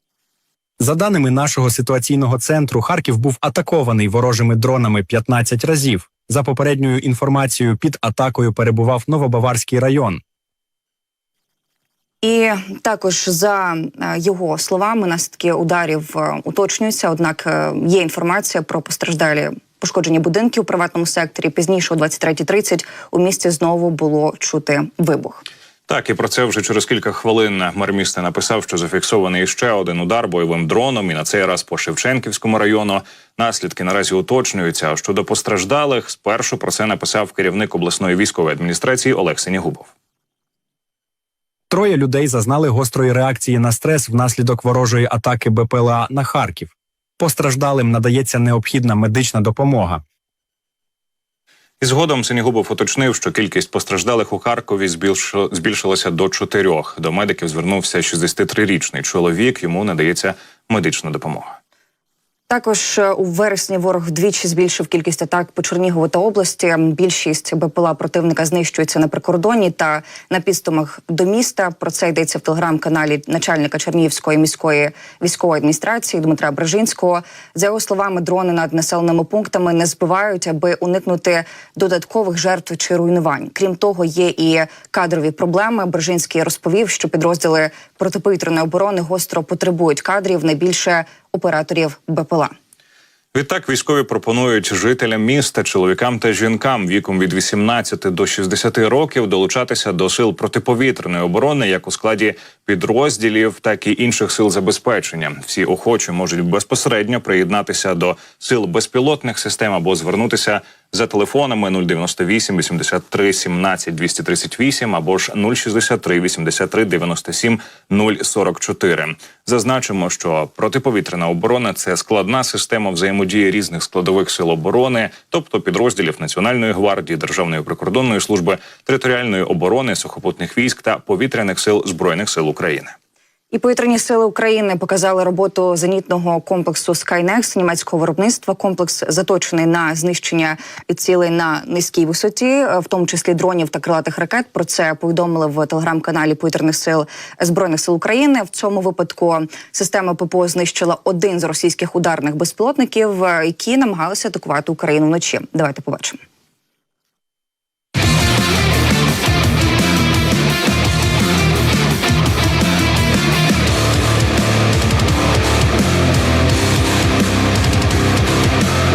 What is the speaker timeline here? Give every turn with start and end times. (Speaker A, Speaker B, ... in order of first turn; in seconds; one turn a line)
Speaker A: 0.8-10.2
Speaker B: 12.2-25.4
Speaker C: 25.9-39.9
Speaker A: 41.7-50.0
Speaker C: 51.8-61.6
Speaker B: 62.5-92.5
Speaker C: 93.3-132.9
Speaker B: 133.5-156.2